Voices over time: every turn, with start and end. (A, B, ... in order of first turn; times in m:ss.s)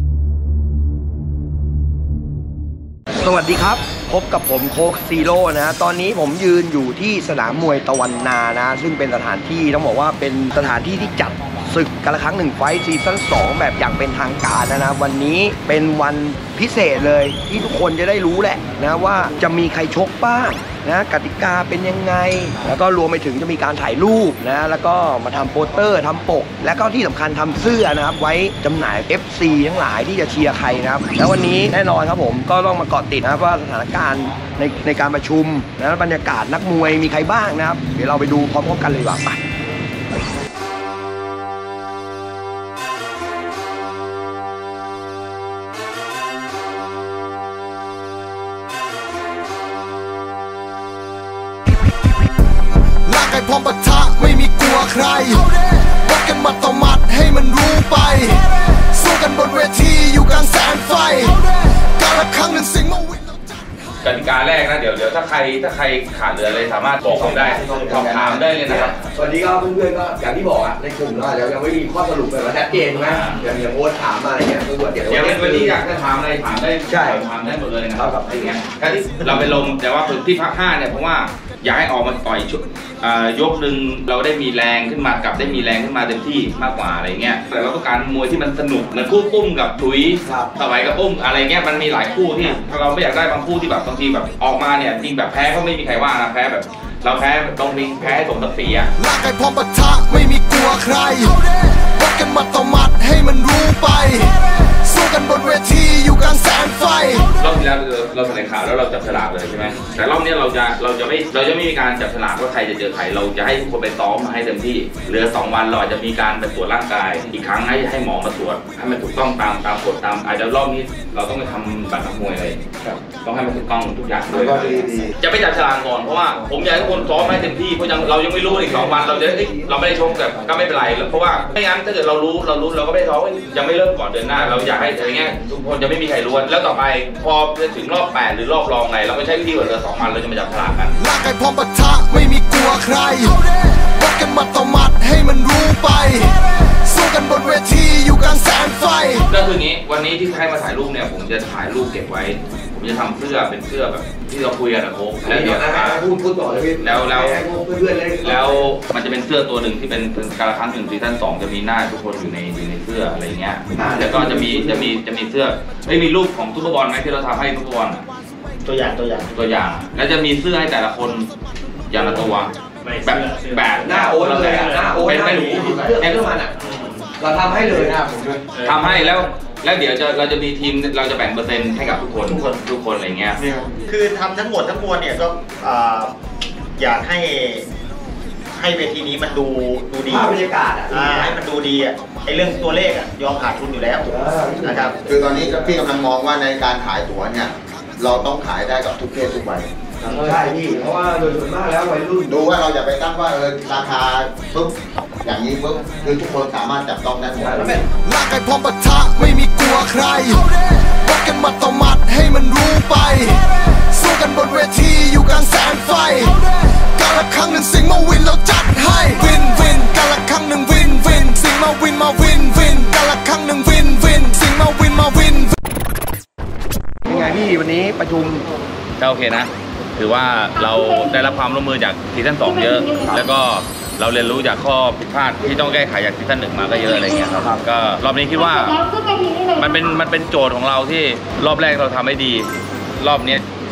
0:03.2-0:39.4 A
0:53.0-1:03.6 B
1:04.0-1:09.0 C
1:07.0-1:15.8 A
1:13.0-1:13.4 C
1:15.1-1:38.9 C
1:16.9-1:17.2 A
1:17.9-1:18.4 A
1:30.2-1:30.5 A
1:39.0-1:47.4 B
1:47.4-2:21.0 C
2:04.5-2:05.0 A
2:21.0-2:29.3 B
2:29.3-2:36.0 C
2:35.2-2:38.7 A
2:36.8-2:37.4 C
2:38.2-2:48.0 C
2:43.8-2:44.8 A
2:48.6-2:49.3 D
2:49.3-2:51.3 C
2:51.9-2:56.2 C
2:53.8-2:56.5 A
2:57.2-2:58.0 A
2:58.6-3:03.4 C
3:03.8-3:06.1 D
3:06.8-3:07.6 D
3:08.5-3:10.3 D
3:10.1-3:11.4 A
3:10.9-3:15.0 D
3:14.0-3:15.8 A
3:15.0-3:19.7 E
3:20.0-3:22.4 A
3:22.3-3:27.8 E
3:27.4-3:27.8 A
3:28.0-3:45.5 B
3:47.0-3:48.4 A
3:49.0-3:58.8 C
3:59.5-4:02.5 C
4:03.0-4:03.4 C